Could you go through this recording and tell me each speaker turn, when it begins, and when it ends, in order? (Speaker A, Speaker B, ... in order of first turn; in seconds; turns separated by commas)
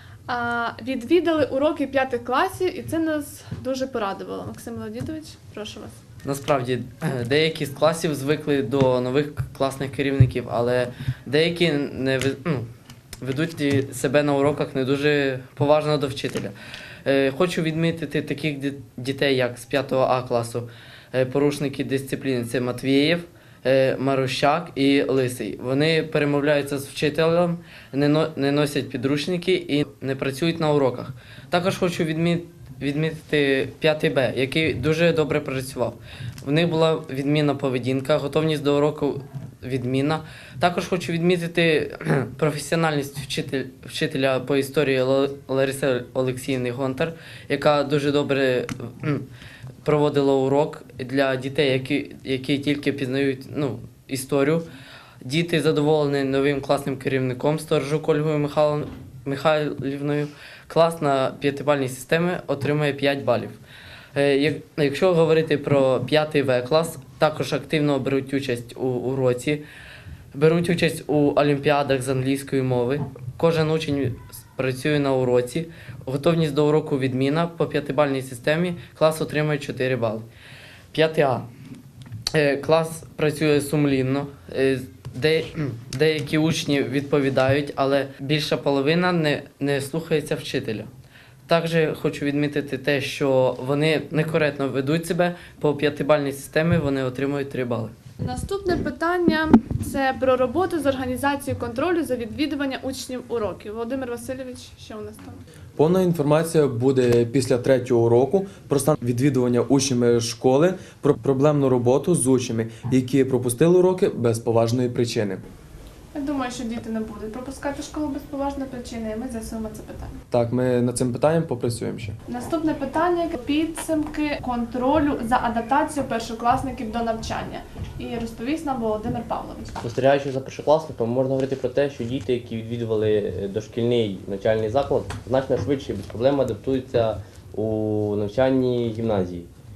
Speaker A: 0.3-6.0, Speaker B: 6.2-12.7, Speaker B: 13.2-16.5, Speaker B: 17.0-49.2, Speaker B: 49.8-54.7, Speaker B: 55.2-63.6, Speaker B: 64.1-69.6, Speaker B: 70.3-80.2, Speaker B: 80.9-81.5, Speaker B: 82.3-90.9, Speaker B: 91.5-97.9, Speaker A: 98.2-105.4, Speaker C: 105.8-115.4, Speaker A: 116.1-120.2, Speaker C: 120.3-122.2, Speaker A: 122.3-129.8, Speaker D: 129.8-139.5